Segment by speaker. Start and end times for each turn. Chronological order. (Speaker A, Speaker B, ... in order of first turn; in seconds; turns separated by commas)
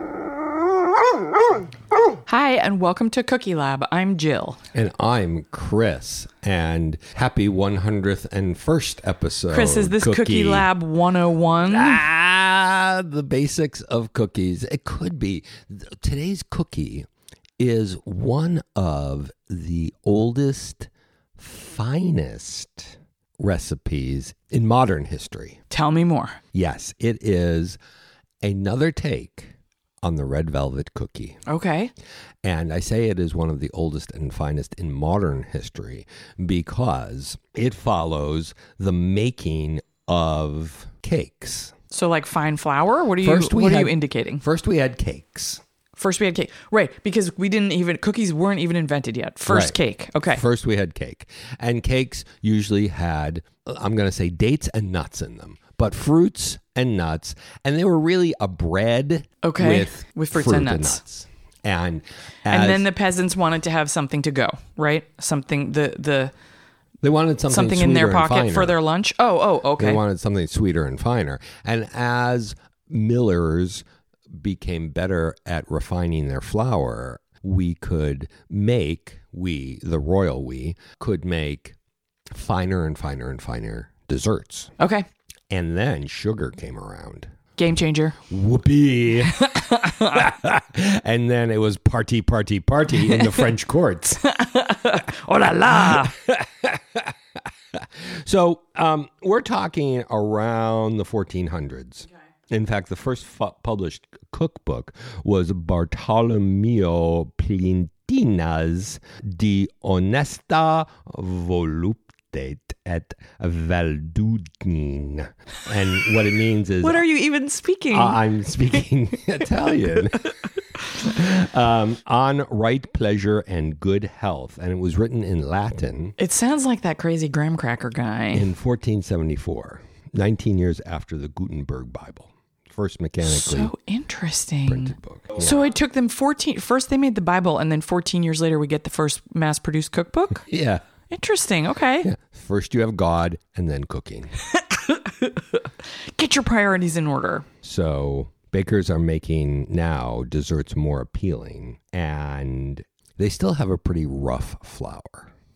Speaker A: 2.3-4.6, Speaker B: 4.7-10.7, Speaker A: 9.5-12.0, Speaker B: 11.6-17.1, Speaker B: 17.6-25.6, Speaker A: 25.7-26.4, Speaker B: 26.5-27.8, Speaker B: 28.4-31.4, Speaker A: 31.5-31.9, Speaker B: 32.4-41.7, Speaker A: 41.9-44.4, Speaker B: 43.2-45.6, Speaker A: 46.0-50.4, Speaker B: 49.5-62.9, Speaker A: 59.4-61.0, Speaker A: 62.5-66.3, Speaker B: 67.0-68.8, Speaker A: 67.5-70.0, Speaker B: 69.8-81.8, Speaker B: 82.3-84.7, Speaker A: 84.8-85.1, Speaker B: 85.5-87.3, Speaker A: 87.6-88.2, Speaker B: 88.2-94.4, Speaker A: 89.2-90.3, Speaker A: 94.4-96.1, Speaker B: 95.2-97.1, Speaker B: 97.7-117.1, Speaker A: 116.8-118.2, Speaker B: 117.9-120.4, Speaker B: 120.9-126.2, Speaker A: 126.2-128.5, Speaker B: 128.3-133.7, Speaker A: 133.2-140.4, Speaker B: 134.7-135.7, Speaker B: 140.5-140.8, Speaker A: 141.1-142.1, Speaker B: 142.0-144.4, Speaker A: 144.5-147.5, Speaker B: 147.6-155.3